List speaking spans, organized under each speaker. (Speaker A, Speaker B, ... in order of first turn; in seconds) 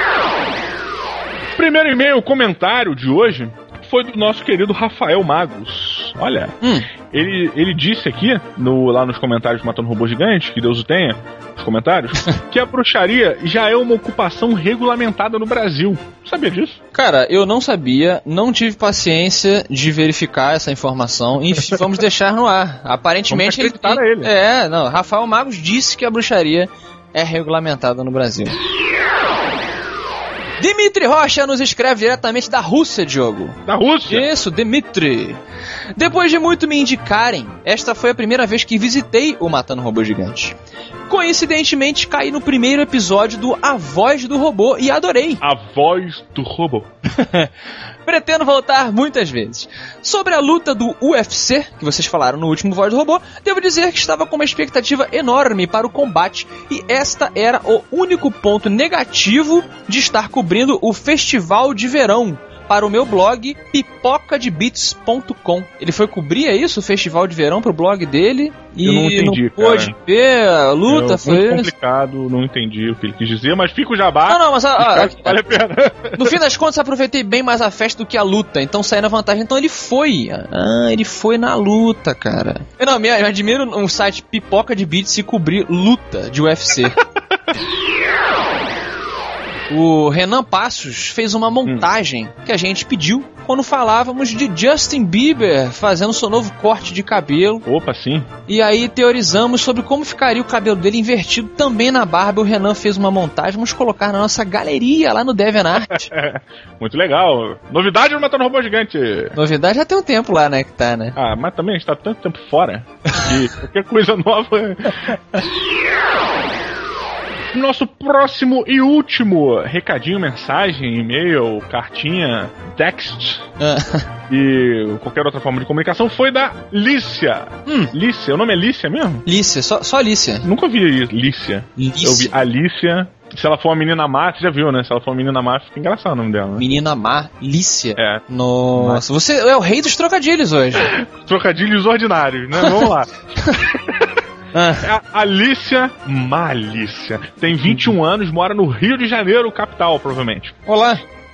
Speaker A: 1.6-6.6, 7.1-16.8, 23.3-24.3, 33.7-34.3, 45.4-46.9, 68.8-70.0, 70.9-76.4, 97.7-98.3, 105.9-109.4, 111.2-115.4, 117.5-123.5, 124.3-129.2, 130.4-136.7, 138.0-139.0, 140.8-143.9, 144.8-150.6
Speaker B: 6.6-6.9, 16.9-28.6, 30.6-35.4, 36.0-40.5, 41.1-45.4, 47.1-47.5, 48.1-71.7, 74.3-75.4, 76.2-87.0, 89.7-97.7, 98.5-106.1, 109.3-111.2, 123.6-124.1, 127.7-127.9, 129.3-130.5, 131.8-132.3, 136.6-140.9, 144.5-144.9, 150.7-151.0